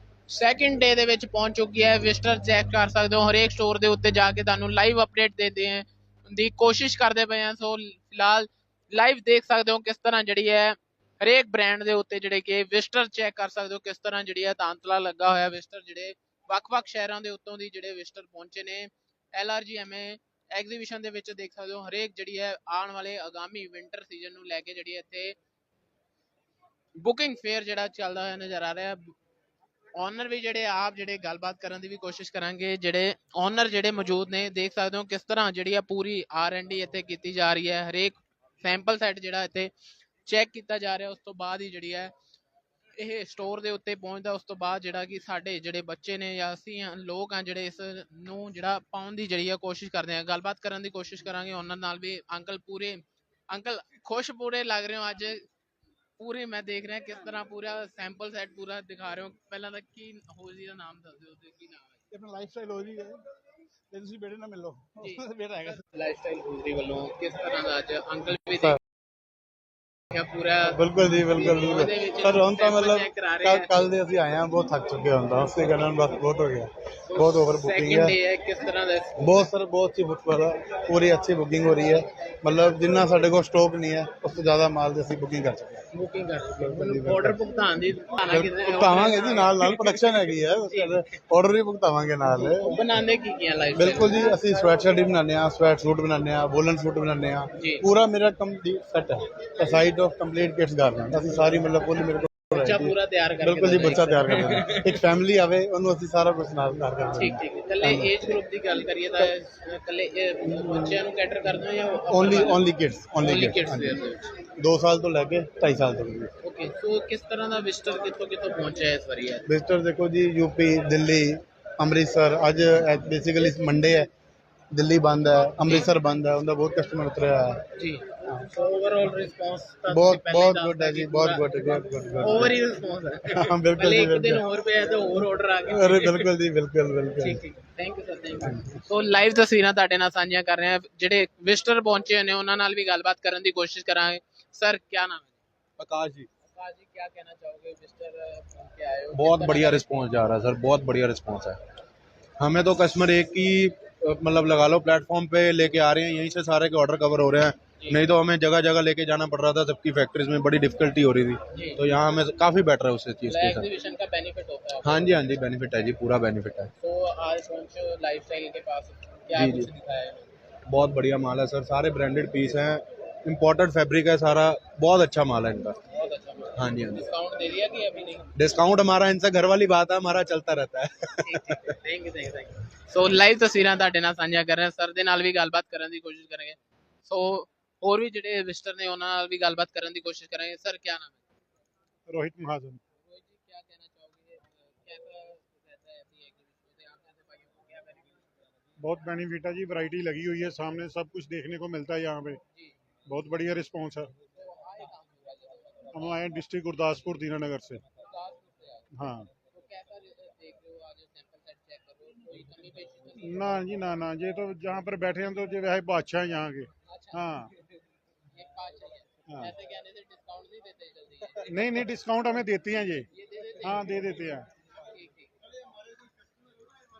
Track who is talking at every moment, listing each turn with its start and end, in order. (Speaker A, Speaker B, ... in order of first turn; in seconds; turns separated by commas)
Speaker A: 0.3-25.4, Speaker A: 27.0-29.1, Speaker A: 30.0-39.7, Speaker A: 40.2-42.1, Speaker A: 43.0-55.4, Speaker A: 56.2-62.0, Speaker B: 62.1-63.2, Speaker B: 63.9-65.8, Speaker A: 65.0-68.8, Speaker A: 70.1-73.8, Speaker B: 70.7-78.2, Speaker A: 77.1-79.5, Speaker B: 79.2-85.8, Speaker A: 85.9-90.0, Speaker B: 86.6-87.4, Speaker B: 88.3-92.8, Speaker A: 90.6-91.0, Speaker A: 92.3-94.3, Speaker B: 93.7-108.3, Speaker A: 97.5-97.8, Speaker A: 102.5-104.9, Speaker A: 107.2-112.6, Speaker B: 110.5-111.0, Speaker B: 112.1-116.3, Speaker A: 113.2-114.3, Speaker A: 116.4-119.5, Speaker B: 119.5-124.1, Speaker B: 124.7-127.6, Speaker A: 127.8-136.3, Speaker B: 129.9-132.6, Speaker B: 133.3-134.4, Speaker B: 135.7-137.4, Speaker A: 137.2-145.4, Speaker B: 138.4-138.8, Speaker C: 145.8-146.3, Speaker A: 146.4-150.1, Speaker C: 149.1-151.6, Speaker C: 152.4-163.7, Speaker A: 157.8-158.0, Speaker A: 161.5-161.8, Speaker A: 163.2-165.3, Speaker C: 164.8-166.7, Speaker A: 166.8-170.3, Speaker C: 169.3-169.7, Speaker C: 170.7-175.8, Speaker A: 175.9-178.3, Speaker C: 176.6-177.0, Speaker C: 178.3-181.7, Speaker A: 181.2-191.2, Speaker D: 192.1-192.8, Speaker A: 193.0-198.3, Speaker D: 198.8-202.4, Speaker D: 203.1-204.1, Speaker A: 204.3-206.2, Speaker D: 205.9-207.8, Speaker A: 208.0-208.9, Speaker D: 208.9-209.3, Speaker A: 209.5-213.8, Speaker D: 213.2-217.5, Speaker A: 216.8-217.8, Speaker A: 218.3-221.9, Speaker D: 221.4-223.1, Speaker A: 223.1-225.3, Speaker D: 223.6-224.4